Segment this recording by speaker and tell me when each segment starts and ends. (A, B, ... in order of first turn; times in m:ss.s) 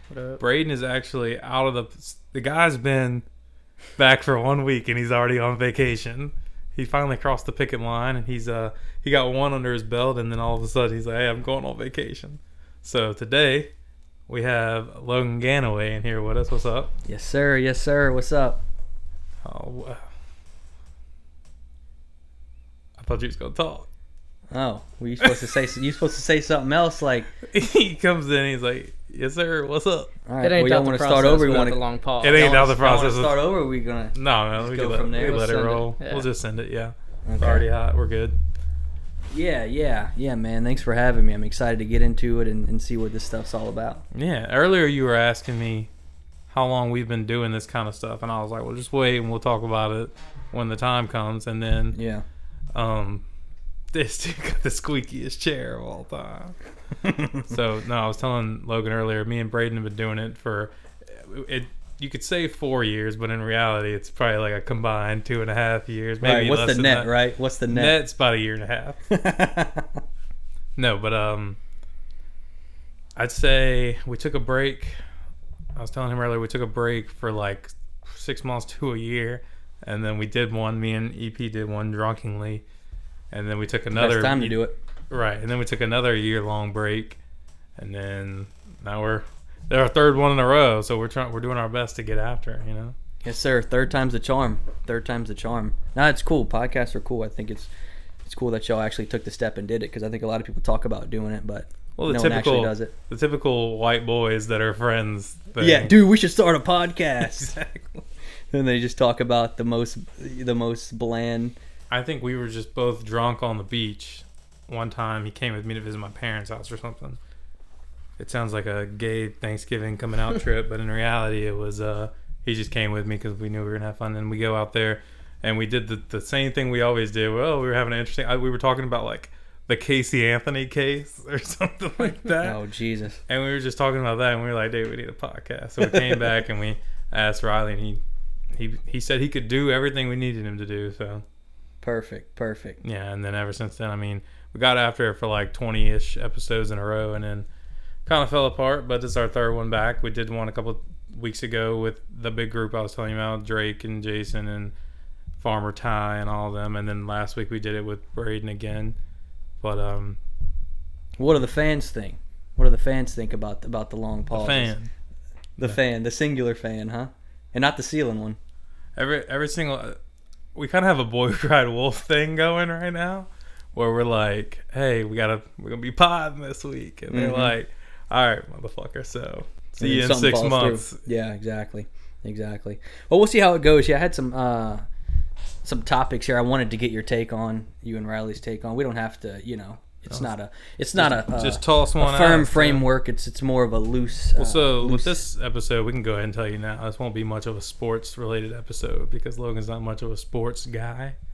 0:00.1-0:00.4 A
0:00.4-0:03.2 B
0:04.0-0:13.7 B
0:14.3-0:16.9 B
0:17.1-0:18.6 C
0:19.4-0:20.0 B
0:23.0-0:23.9 B
0:24.5-0:27.3 C
0:27.4-0:30.1 B
0:30.3-0:31.8 C
0:30.4-0:32.5 A
0:32.2-0:33.4 B
0:32.3-0:35.4 C
0:34.1-0:38.4 B
0:35.1-0:36.3 A
0:37.2-0:37.6 C
0:39.3-0:44.0 C
0:44.1-0:45.9 B
0:46.5-0:52.0 B
0:51.9-0:52.2 C
0:52.7-0:53.2 B
0:53.9-0:56.5 B
0:57.0-0:57.4 C
0:57.5-1:07.2 B
1:06.2-1:08.0 C
1:07.7-1:09.0 B
1:09.1-1:10.0 C
1:10.8-1:11.6 B
1:13.2-1:15.0 B
1:15.8-1:22.6 B
1:23.3-1:24.6 B
1:23.9-1:24.8 C
1:25.1-1:27.2 B
1:27.8-1:32.9 B
1:33.2-1:37.7 C
1:38.2-1:42.9 C
1:42.0-1:45.9 B
1:45.6-1:47.6 C
1:47.4-1:48.0 B
1:48.5-1:51.5 C
1:51.9-1:57.2 B
1:58.2-2:12.6 B
2:12.3-2:13.2 C
2:13.3-2:18.0 B
2:18.5-2:21.2 B
2:21.8-2:22.8 C
2:22.8-2:27.5 B
2:28.0-2:34.7 B
2:35.4-2:39.0 B
2:39.6-2:40.2 B
2:41.2-2:44.7 C
2:44.3-2:44.9 B
2:45.6-2:48.4 C
2:49.0-2:50.0 B
2:50.5-3:01.0 B
2:57.1-2:57.5 C
2:59.8-3:04.8 C
3:05.6-3:15.2 C
3:10.9-3:12.8 B
3:14.4-3:21.2 B